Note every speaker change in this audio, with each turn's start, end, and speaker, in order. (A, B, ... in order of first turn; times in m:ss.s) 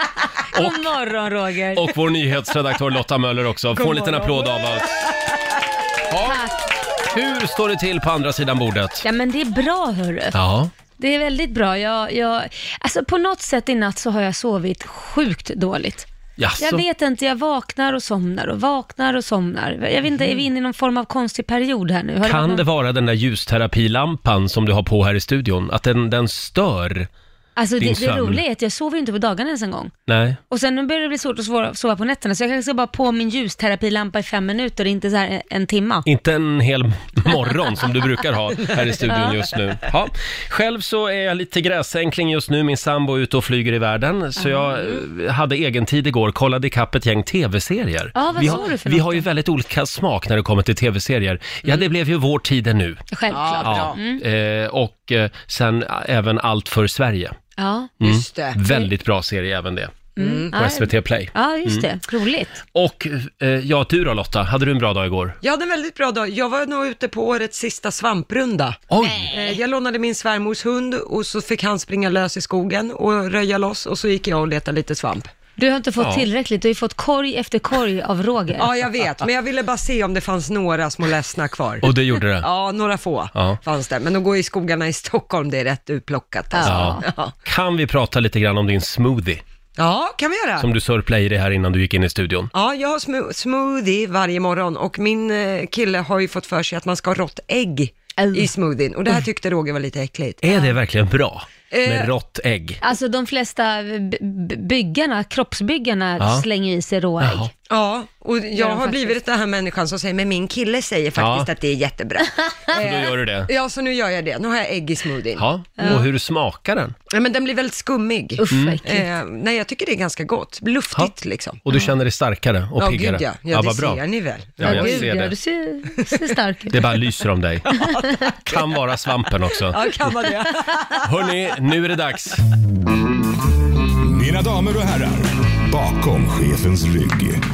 0:00.5-0:00.9 A
0:00.5-0:01.9 B
0:01.7-0:04.9 A
0:03.7-0:04.8 C
0:06.1-0:06.4 A
0:07.0-0:09.0 A
0:09.0-0:10.4 B
0:10.3-0:10.7 A
0:11.0-0:16.1 B
0:16.4-0:16.8 A
0:16.6-0:22.6 B
0:22.2-0:27.1 A
0:27.6-0:29.9 B
0:27.8-0:28.4 A
0:30.1-0:30.4 A
0:30.5-0:36.0 B
0:36.0-0:53.1 A
0:39.1-0:39.4 B
0:44.4-0:44.8 B
0:48.2-0:49.2 B
0:53.1-0:54.2 B
0:53.3-0:54.0 C
0:53.6-0:57.4 A
0:57.6-0:57.9 B
0:58.0-0:58.6 C
0:58.0-1:01.9 A
1:00.2-1:00.5 C
1:00.2-1:02.6 B
1:02.7-1:05.4 A
1:05.4-1:15.3 C
1:08.9-1:09.4 A
1:15.6-1:18.7 B
1:16.0-1:16.2 A
1:18.5-1:27.3 C
1:21.8-1:22.5 A
1:23.3-1:23.6 A
1:26.6-1:27.0 B
1:26.6-1:29.4 A
1:29.8-1:30.7 C
1:30.6-1:32.5 A
1:32.5-1:40.4 C
1:38.2-1:38.5 B
1:40.4-1:42.8 A
1:41.7-1:42.1 C
1:42.8-1:47.5 B
1:46.2-1:46.4 A
1:47.2-1:47.5 A
1:47.7-1:56.0 C
1:48.5-1:49.1 B
1:51.2-1:51.5 A
1:52.8-1:53.5 A
1:55.4-1:56.9 A
1:55.8-1:56.0 B
1:57.1-2:01.6 C
1:58.4-1:59.0 B
1:58.5-1:58.8 A
2:01.6-2:04.0 A
2:02.8-2:05.1 C
2:04.6-2:05.3 A
2:04.6-2:06.8 B
2:06.7-2:07.8 A
2:07.8-2:08.3 B
2:08.4-2:09.8 A
2:09.7-2:11.0 C
2:10.3-2:10.8 B
2:11.0-2:12.4 A
2:14.0-2:17.4 D